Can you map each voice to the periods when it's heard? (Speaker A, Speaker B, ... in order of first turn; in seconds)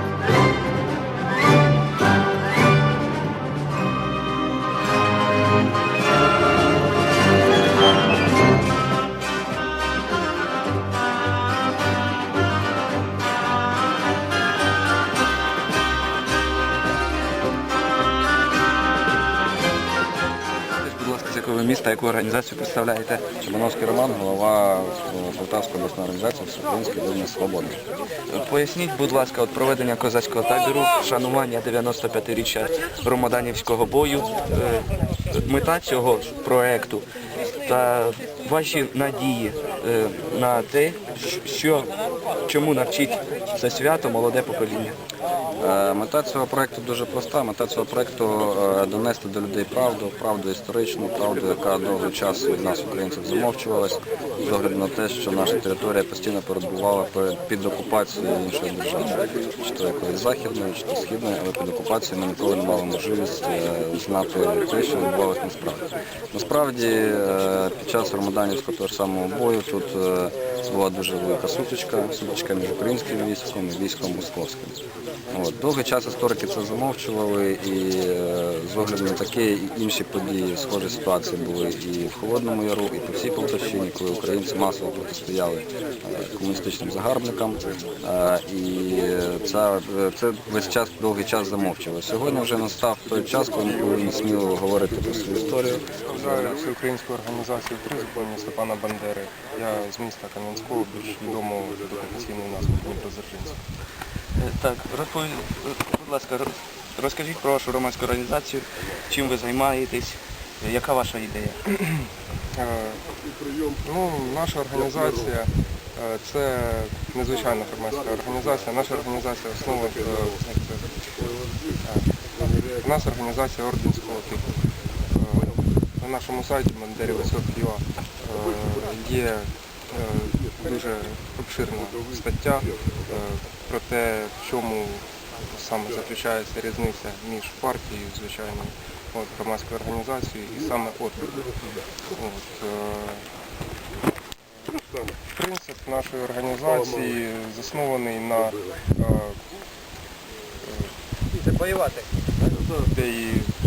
Speaker A: 20.8-23.3, 28.3-37.1, 37.6-41.9, 42.4-45.0, 95.5-95.8, 104.3-111.7
Speaker B: 23.4-27.8, 45.6-74.8, 75.3-95.7
Speaker C: 96.0-103.5, 112.5-113.0, 113.8-121.0, 121.8-122.1, 122.7-124.5, 125.1-141.5, 142.1-143.3, 145.3-149.4, 150.6-150.9, 152.8-153.5